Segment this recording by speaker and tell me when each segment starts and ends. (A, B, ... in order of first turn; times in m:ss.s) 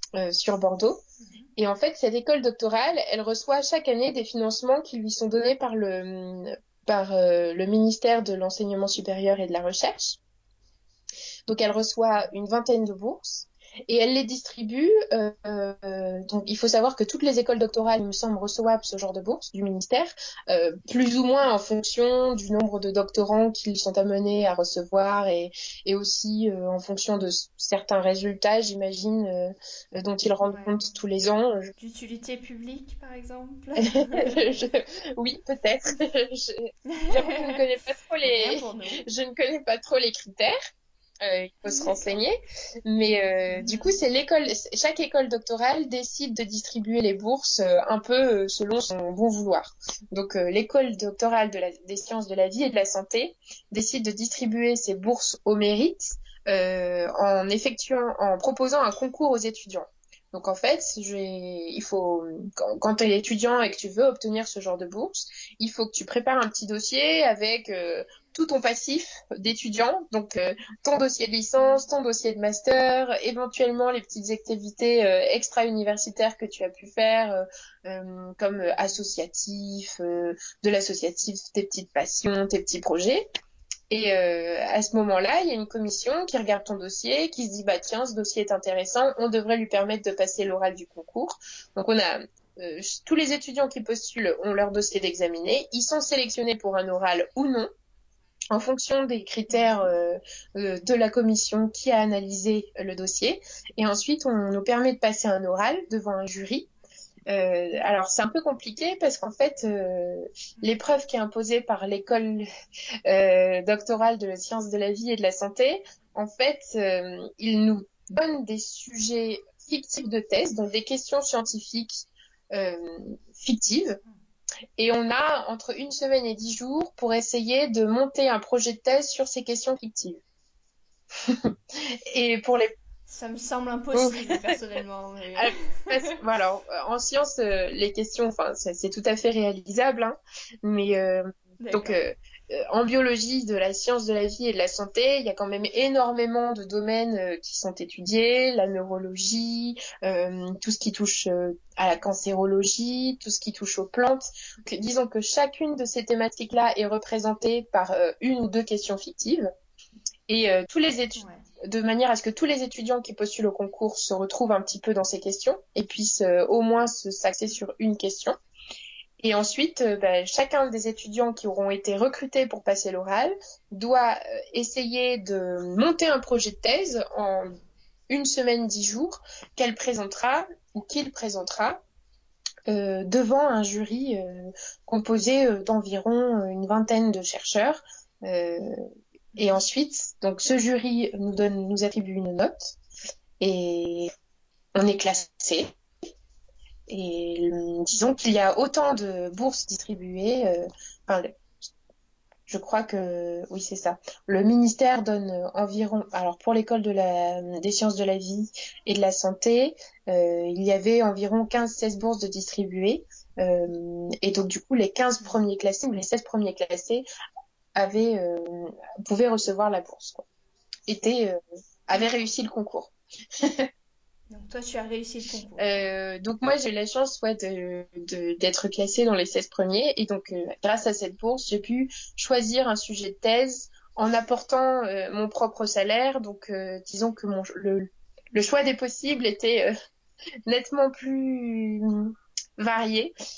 0:00.2-0:01.0 A
0:01.2-0:01.5 B
0:01.6-0:10.2 A
0:11.5-0:31.7 A
0:30.4-0:30.8 B
0:31.8-0:34.5 B
0:34.1-0:40.6 A
0:36.9-0:37.6 B
0:38.2-0:39.1 B
0:41.2-1:23.2 A
0:41.6-0:42.1 B
0:43.0-0:44.0 B
1:11.6-1:11.9 B
1:23.9-1:37.7 A
1:38.5-1:46.7 A
1:39.5-1:39.9 B
1:47.3-1:52.5 A
1:53.1-2:04.0 A
2:04.8-2:10.2 A
2:11.2-2:12.7 A
2:13.1-2:16.1 B
2:13.9-2:14.4 A
2:15.4-2:39.4 A
2:21.6-2:22.0 B
2:40.3-2:48.4 A
2:41.2-2:41.4 B
2:49.2-2:57.5 A
2:58.1-3:01.8 A
3:02.7-3:08.8 A
3:09.4-3:12.8 A
3:09.4-3:09.6 B
3:13.4-3:14.1 A
3:14.8-3:15.7 A
3:16.9-3:21.3 A
3:22.5-3:37.1 A
3:37.8-3:40.2 A
3:40.9-3:41.4 A
3:41.9-3:42.9 A
3:44.3-3:45.8 B
3:45.6-3:59.7 A
4:00.5-4:03.1 A